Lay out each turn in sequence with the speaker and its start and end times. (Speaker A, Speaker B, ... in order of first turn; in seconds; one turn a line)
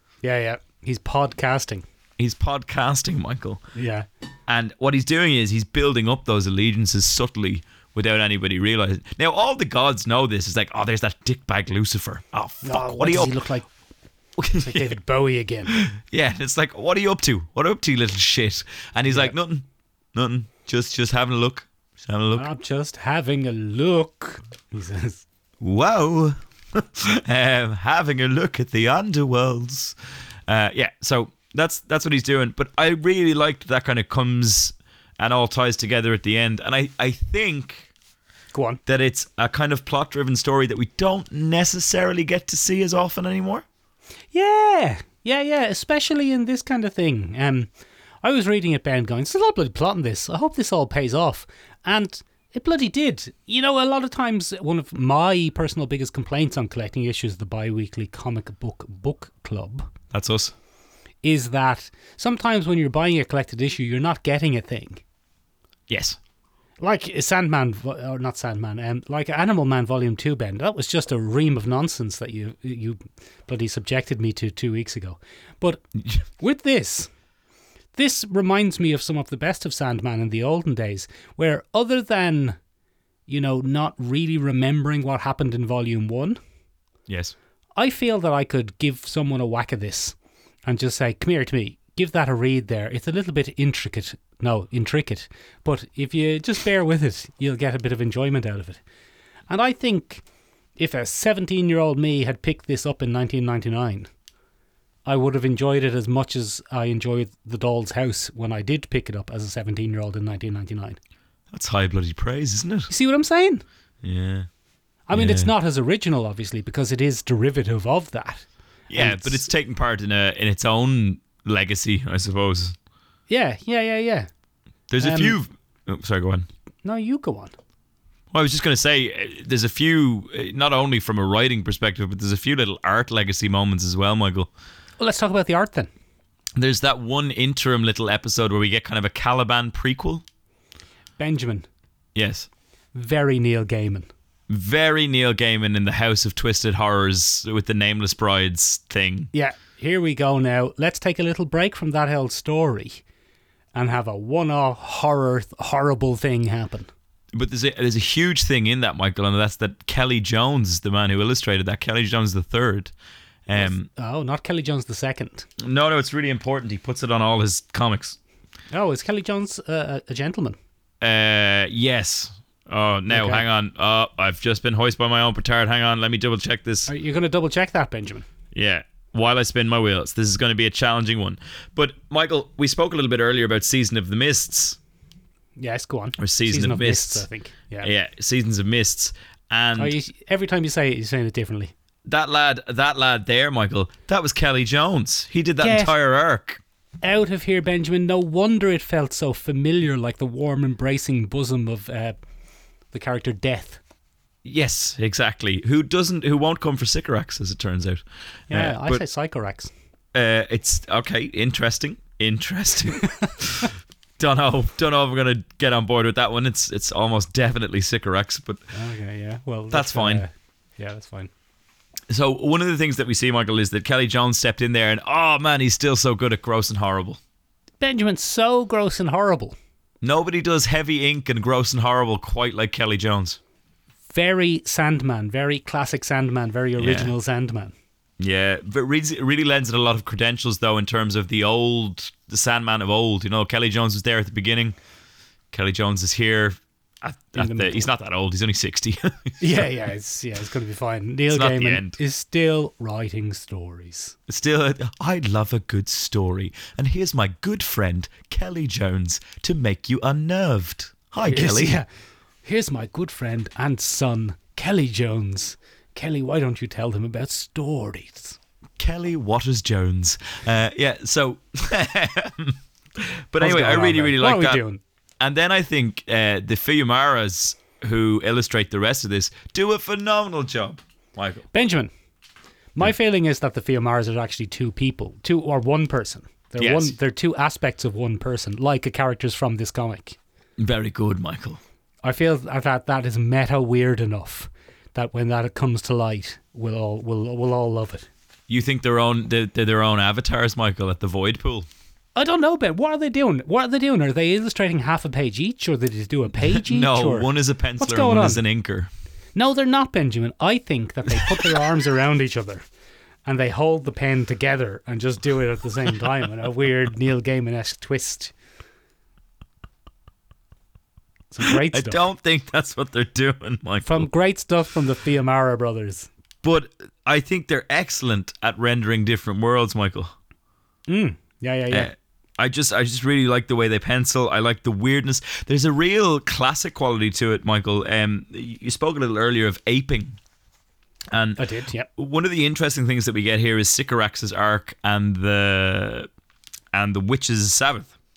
Speaker A: 0.2-1.8
Speaker B: 2.2-3.6
Speaker A: 3.8-4.0
Speaker B: 4.5-13.4
Speaker A: 12.6-13.7
Speaker B: 14.4-14.9
Speaker A: 14.5-15.8
Speaker B: 15.7-22.5
Speaker A: 19.1-19.3
Speaker A: 22.3-25.2
Speaker B: 25.6-29.9
Speaker B: 30.5-37.9
Speaker A: 38.5-38.8
Speaker B: 38.9-43.6
Speaker A: 44.3-47.7
Speaker A: 48.2-59.9
Speaker B: 60.1-60.5
Speaker A: 61.2-65.0
Speaker B: 65.9-66.2
Speaker A: 66.8-75.8
Speaker A: 76.4-77.1
Speaker A: 77.9-82.6
Speaker A: 83.3-86.4
Speaker B: 87.1-87.3
Speaker A: 87.8-90.1
Speaker A: 90.7-98.8
Speaker A: 99.5-100.2
Speaker A: 100.8-104.1
Speaker A: 105.0-111.0
Speaker B: 111.5-112.9
Speaker A: 112.9-113.6
Speaker B: 114.0-114.5
Speaker A: 115.1-119.5
Speaker B: 115.1-115.5
Speaker B: 118.9-122.8
Speaker A: 123.3-124.3
Speaker B: 124.9-126.5
Speaker A: 125.0-125.4
Speaker A: 126.8-127.5
Speaker B: 128.3-134.5
Speaker A: 135.0-135.9
Speaker B: 136.6-140.2
Speaker A: 141.2-141.7
Speaker B: 142.1-142.5
Speaker A: 142.9-144.1
Speaker B: 144.5-149.3
Speaker A: 149.3-153.0
Speaker A: 153.8-156.9
Speaker B: 157.3-162.9
Speaker B: 163.4-163.9
Speaker A: 163.6-165.5
Speaker B: 165.6-168.2
Speaker A: 168.7-170.6
Speaker B: 171.0-176.9
Speaker A: 173.1-173.4
Speaker A: 176.9-178.2
Speaker B: 178.5-184.8
Speaker A: 185.6-187.9
Speaker B: 186.2-187.2
Speaker B: 187.8-189.9
Speaker A: 189.8-191.7
Speaker B: 192.1-196.6
Speaker A: 195.6-195.9
Speaker A: 197.0-202.2
Speaker A: 202.9-203.8
Speaker B: 204.4-209.0
Speaker A: 208.5-209.7
Speaker B: 210.1-218.6
Speaker A: 218.7-221.3
Speaker B: 219.7-220.2
Speaker B: 222.1-227.2
Speaker A: 227.8-229.6
Speaker B: 230.0-233.4
Speaker A: 234.1-237.7
Speaker B: 236.8-237.1
Speaker B: 238.2-244.8
Speaker B: 245.5-249.7
Speaker A: 247.4-247.9
Speaker A: 249.4-254.2
Speaker B: 251.3-252.0
Speaker B: 254.3-261.8
Speaker A: 261.2-261.9
Speaker A: 262.4-268.4
Speaker B: 268.8-274.6
Speaker A: 273.4-274.8
Speaker B: 275.2-281.4
Speaker A: 281.5-281.9
Speaker A: 282.7-290.2
Speaker B: 286.6-286.9
Speaker B: 290.6-291.6
Speaker A: 292.0-298.1
Speaker B: 298.5-301.7
Speaker A: 302.1-308.4
Speaker B: 306.4-308.9
Speaker A: 309.4-312.6
Speaker A: 313.2-318.3
Speaker A: 321.3-322.0
Speaker B: 321.4-324.1
Speaker A: 323.8-326.1
Speaker B: 326.4-330.1
Speaker A: 330.9-331.9
Speaker B: 331.7-340.2
Speaker B: 341.1-341.4
Speaker A: 341.4-341.9
Speaker B: 341.9-346.1
Speaker B: 346.7-347.9